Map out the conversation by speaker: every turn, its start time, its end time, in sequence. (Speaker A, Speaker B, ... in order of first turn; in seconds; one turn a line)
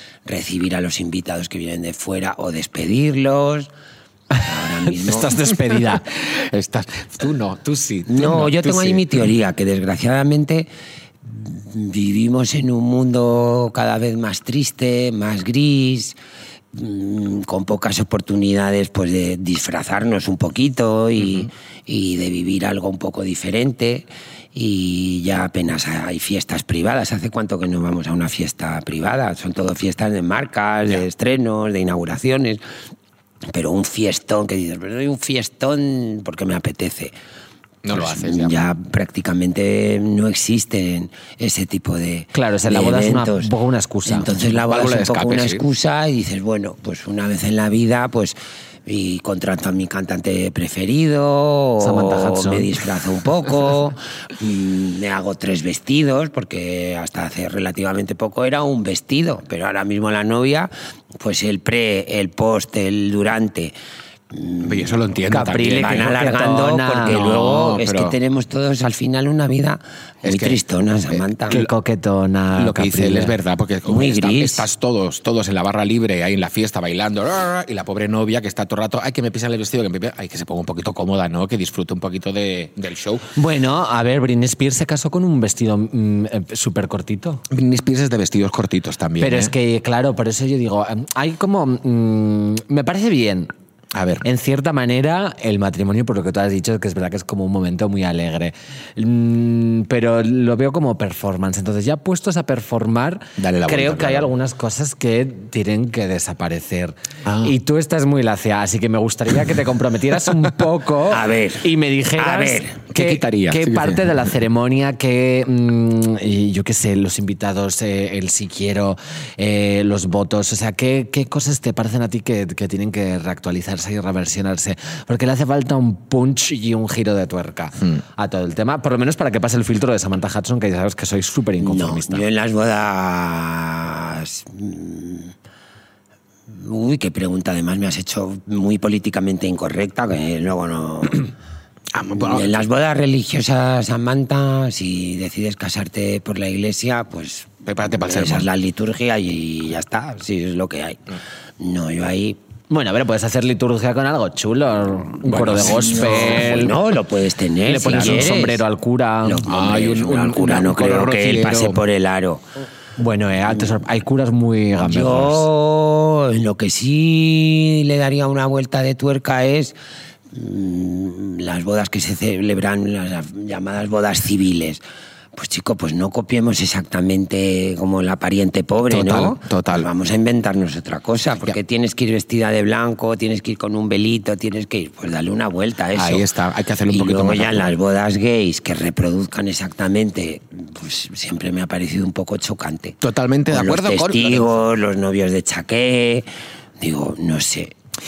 Speaker A: 0.2-3.7
Speaker B: 4.3-6.1
Speaker A: 4.4-5.4
Speaker C: 6.1-9.2
Speaker A: 8.1-10.7
Speaker A: 11.2-16.2
Speaker A: 16.7-32.6
Speaker C: 21.2-21.5
Speaker A: 33.5-37.1
Speaker C: 37.8-38.5
Speaker A: 37.9-43.5
Speaker B: 42.3-44.3
Speaker A: 44.0-63.7
Speaker C: 44.6-45.6
Speaker B: 51.8-52.7
Speaker A: 64.3-65.0
Speaker C: 64.6-66.1
Speaker B: 65.3-67.2
Speaker A: 65.8-71.6
Speaker C: 67.1-68.2
Speaker C: 70.2-70.6
Speaker C: 71.1-71.7
Speaker B: 71.5-73.3
Speaker C: 72.5-83.3
Speaker A: 73.8-74.7
Speaker B: 83.3-87.4
Speaker C: 87.5-89.5
Speaker B: 89.2-93.5
Speaker C: 93.9-94.2
Speaker B: 94.2-132.2
Speaker C: 103.4-104.3
Speaker C: 107.2-107.5
Speaker A: 111.1-112.8
Speaker C: 112.9-114.1
Speaker A: 131.6-135.3
Speaker A: 136.5-141.3
Speaker C: 141.9-142.6
Speaker A: 142.1-152.4
Speaker C: 147.7-148.5
Speaker B: 152.7-156.8
Speaker C: 155.2-156.5
Speaker A: 155.6-158.6
Speaker B: 157.6-159.4
Speaker C: 157.9-158.3
Speaker A: 159.2-162.4
Speaker C: 159.4-161.8
Speaker B: 163.0-165.5
Speaker A: 164.8-169.8
Speaker A: 170.3-174.8
Speaker A: 175.3-186.3
Speaker C: 178.9-179.9
Speaker C: 185.9-187.7
Speaker A: 186.9-193.0
Speaker C: 193.0-194.5
Speaker A: 193.5-196.3
Speaker A: 196.8-197.7